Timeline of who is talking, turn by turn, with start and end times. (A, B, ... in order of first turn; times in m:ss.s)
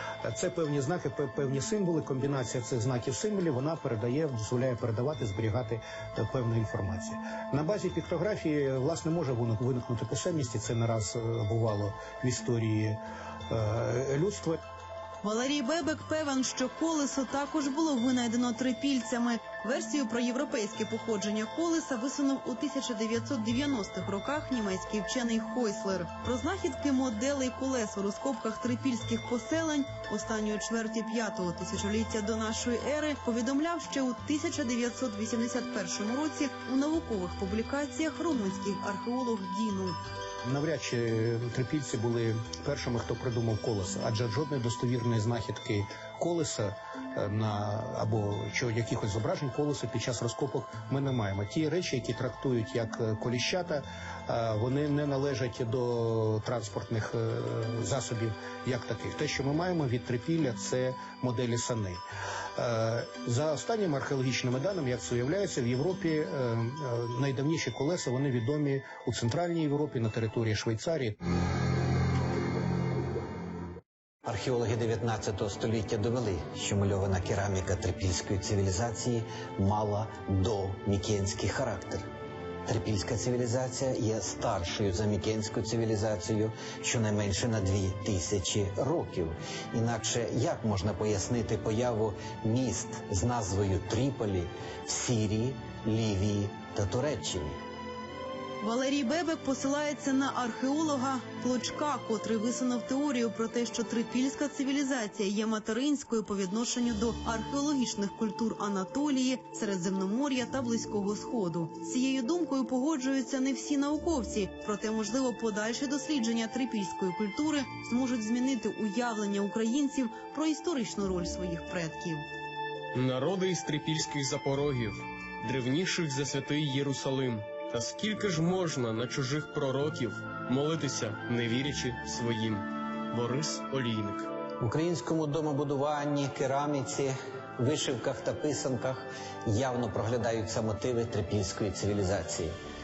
0:00.2-0:14.6 A
0:15.2-0:40.0 B
0:40.4-1:02.0 A
1:02.6-1:11.2 A
1:14.2-1:22.0 C
1:22.7-1:37.6 C
1:38.6-2:02.2 B
2:02.9-2:14.3 D
2:14.6-2:22.6 C